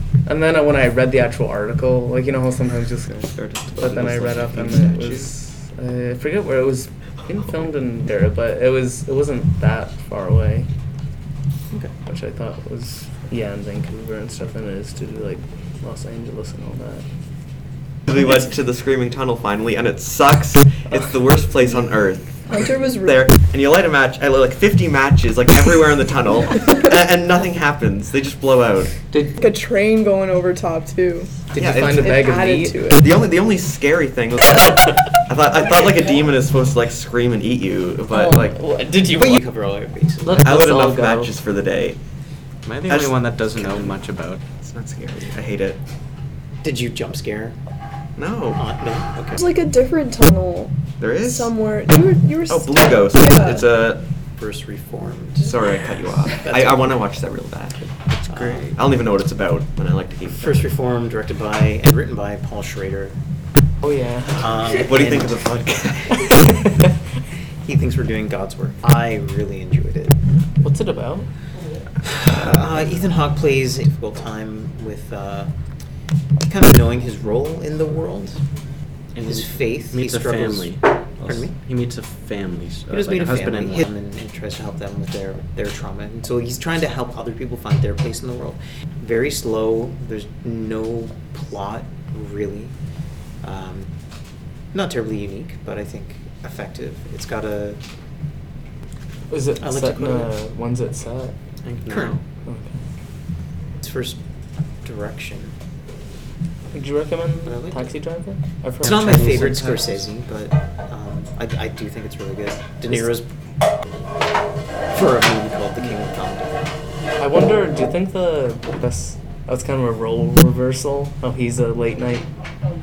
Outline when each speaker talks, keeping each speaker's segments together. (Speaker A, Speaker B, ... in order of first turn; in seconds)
Speaker A: 0.3-3.2, 3.8-10.7, 12.1-17.1, 29.1-29.4, 31.5-32.8, 38.1-39.4, 40.2-41.4, 63.8-65.3, 70.6-71.3, 99.3-101.3, 102.5-102.8, 106.7-109.8, 117.2-122.3
Speaker B: 3.1-5.3, 18.1-28.9, 31.6-32.2, 32.9-38.6, 40.4-42.0, 42.9-43.9, 44.6-45.8, 48.2-48.6, 51.0-51.5, 52.5-54.0, 55.4-60.7, 64.7-66.5
Speaker C: 22.5-23.3, 29.4-33.2, 49.3-53.7
Speaker D: 39.1-40.5, 46.6-47.6, 48.6-49.5, 54.4-55.5, 58.3-58.7, 60.4-63.2, 64.3-65.2, 67.7-70.2, 72.1-75.5, 76.5-78.4, 79.2-81.5, 82.9-92.7, 93.4-93.9, 94.7-97.8, 99.6-100.3, 101.9-102.2, 103.8-104.2, 104.8-105.5, 107.5-107.9, 108.8-113.3, 114.9-116.7
Speaker E: 42.6-44.4, 79.2-83.9, 101.7-102.2, 109.0-109.6